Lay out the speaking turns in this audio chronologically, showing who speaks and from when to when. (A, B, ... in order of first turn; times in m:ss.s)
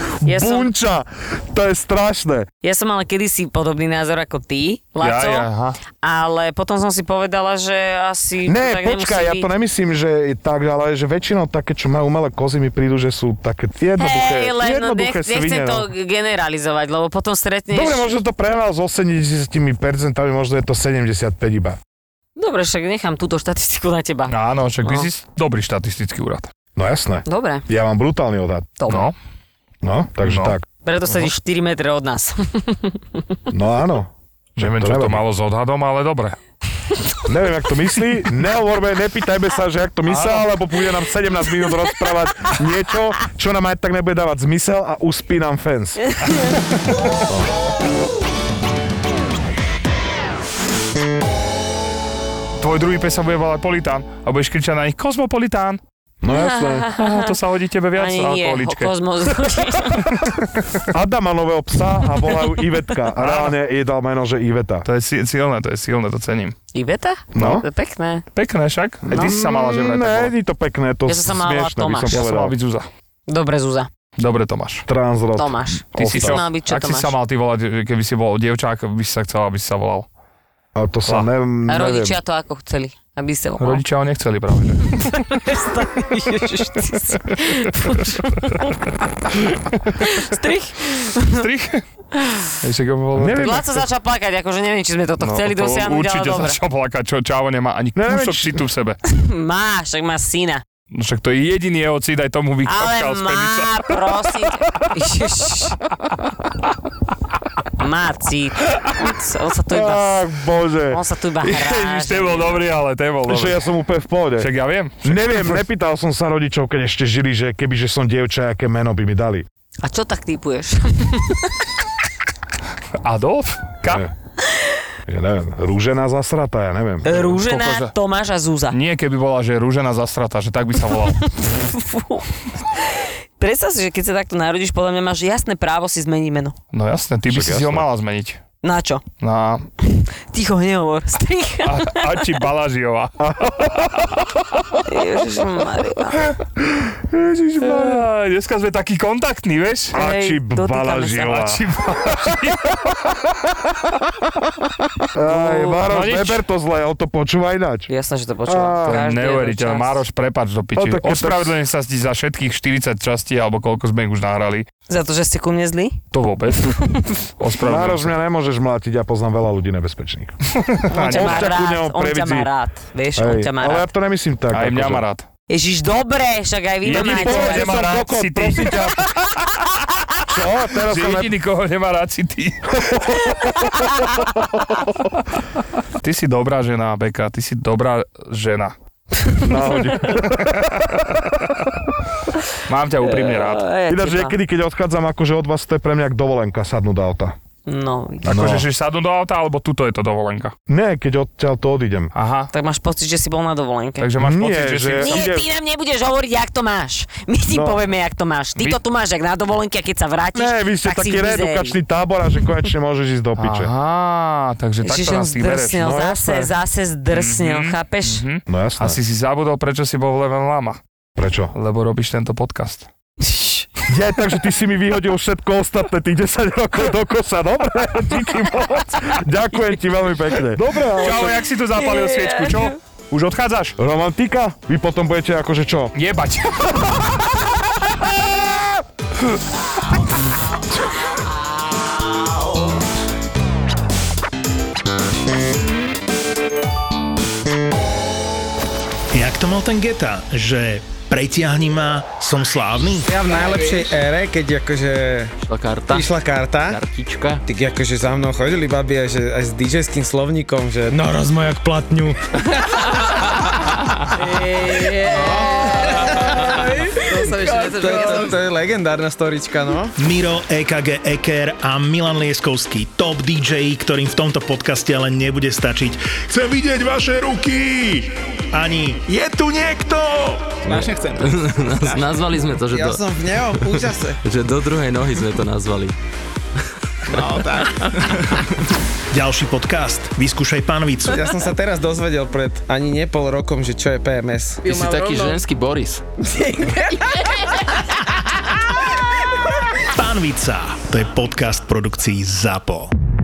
0:00.2-0:02.5 A
0:00.2-0:00.7 B
0:02.6-0:05.5 B
0:05.0-0:05.8 C
0:06.0-0:09.5 B
0:08.4-0:15.9 A
0:14.0-0:18.2 B
0:17.7-0:21.8 A
0:22.4-0:25.1 B
0:24.3-0:26.5 C
0:26.8-0:28.7 A
0:27.2-0:27.6 B
0:28.8-0:29.1 B
0:28.9-0:29.2 C
0:29.8-0:30.6 A
0:30.2-0:30.6 C
0:30.8-0:33.2 B
0:33.5-0:35.2 A
0:34.6-0:36.4 C
0:37.2-0:46.2 A
0:40.1-0:40.5 C
0:46.1-0:46.5 B
0:47.3-0:47.5 A
0:52.6-0:55.8 C
0:56.2-0:56.9 A
0:56.3-0:57.4 B
0:57.0-0:58.9 C
0:58.0-1:00.2 B
1:00.9-1:04.9 A
1:03.2-1:03.6 C
1:04.8-1:06.6 C
1:06.7-1:08.2 B
1:07.3-1:07.7 A
1:08.4-1:10.3 C
1:09.1-1:12.6 A
1:11.1-1:12.2 B
1:12.1-1:12.9 C
1:13.3-1:13.9 B
1:14.2-1:14.9 C
1:14.9-1:16.4 A
1:15.4-1:17.1 B
1:16.0-1:20.1 C
1:20.8-1:22.2 A
1:21.7-1:23.8 B
1:23.6-1:25.4 C
1:24.9-1:28.8 B
1:27.1-1:28.6 C
1:30.0-1:30.3 C
1:30.0-1:31.5 B
1:31.3-1:31.8 C
1:32.1-1:32.6 B
1:32.6-1:33.6 C
1:33.1-1:33.8 A
1:33.4-1:36.6 B
1:35.2-1:39.0 C
1:38.0-1:38.6 A
1:39.0-1:40.6 B
1:40.9-1:44.1 C
1:42.7-1:45.8 B
1:47.8-1:50.2 B
1:49.7-1:51.0 A
1:50.9-1:52.6 B
1:51.4-1:53.7 C
1:53.3-1:54.5 A
1:54.4-1:55.6 C
1:55.0-1:59.4 A
1:59.8-2:01.7 B
2:03.0-2:04.1 C
2:03.8-2:04.1 A
2:04.5-2:04.8 B
2:05.1-2:07.3 A
2:07.0-2:08.8 B
2:07.2-2:07.9 C
2:08.7-2:11.3 C
2:11.3-2:16.6 B
2:16.7-2:18.4 C
2:17.3-2:17.9 A
2:18.6-2:19.0 B
2:19.2-2:19.7 C
2:19.8-2:22.4 B
2:21.6-2:24.6 C
2:23.2-2:24.3 A
2:24.8-2:26.4 B
2:26.6-2:28.1 A
2:27.6-2:30.0 C
2:29.9-2:33.9 A
2:29.9-2:31.6 B
2:31.2-2:32.8 C
2:35.1-2:37.9 A
2:35.3-2:35.8 B
2:35.6-2:36.4 C
2:37.9-2:40.0 B
2:38.5-2:39.0 A
2:38.8-2:44.7 C
2:40.8-2:41.6 A
2:44.9-2:46.0 B
2:46.1-2:48.2 C
2:46.6-2:47.2 B
2:47.6-2:50.4 A
2:50.6-2:51.5 C
2:50.9-2:53.9 B
2:51.0-2:52.5 A
2:53.2-2:55.0 A
2:54.5-2:55.3 C
2:55.5-2:57.8 B
2:56.8-2:59.8 C
2:56.9-2:59.2 A
3:00.2-3:01.4 A
3:00.8-3:03.0 C
3:02.9-3:03.4 A
3:03.2-3:04.3 B
3:06.0-3:08.7 C
3:09.2-3:09.5 B
3:09.4-3:11.2 A
3:10.2-3:11.3 C
3:12.6-3:13.7 C
3:13.0-3:14.4 B
3:13.9-3:17.4 A
3:17.7-3:18.5 B
3:18.2-3:20.5 C
3:18.2-3:18.7 A
3:20.7-3:22.1 A
3:22.2-3:22.5 C
3:22.5-3:24.1 B
3:24.0-3:25.3 C
3:24.2-3:25.5 A
3:25.0-3:31.8 B
3:27.5-3:27.8 A
3:30.4-3:33.7 A
3:33.4-3:35.9 C
3:34.8-3:38.2 B
3:35.8-3:36.5 A
3:37.1-3:40.8 C
3:38.5-3:39.0 A
3:41.2-3:41.5 A
3:41.5-3:42.9 C
3:43.2-3:43.7 B
3:43.9-3:51.4 A
3:51.0-3:53.8 C
3:51.8-3:52.8 B
3:53.8-3:55.9 A
3:56.0-3:57.4 C
4:09.1-4:13.1 D
4:13.0-4:15.4 E
4:15.4-4:16.1 F
4:15.9-4:16.8 E
4:16.7-4:17.4 F
4:17.4-4:23.5 E
4:24.2-4:30.0 E
4:24.6-4:26.0 B
4:27.4-4:28.3 B
4:30.0-4:40.9 D
4:40.7-4:46.0 F
4:40.7-4:41.3 E
4:42.7-4:44.2 E
4:47.1-4:48.4 E
4:47.1-4:48.5 F
4:49.1-4:51.3 D
4:51.1-4:55.4 E
4:54.6-4:56.0 F
4:56.3-4:57.5 E
4:59.9-5:02.9 D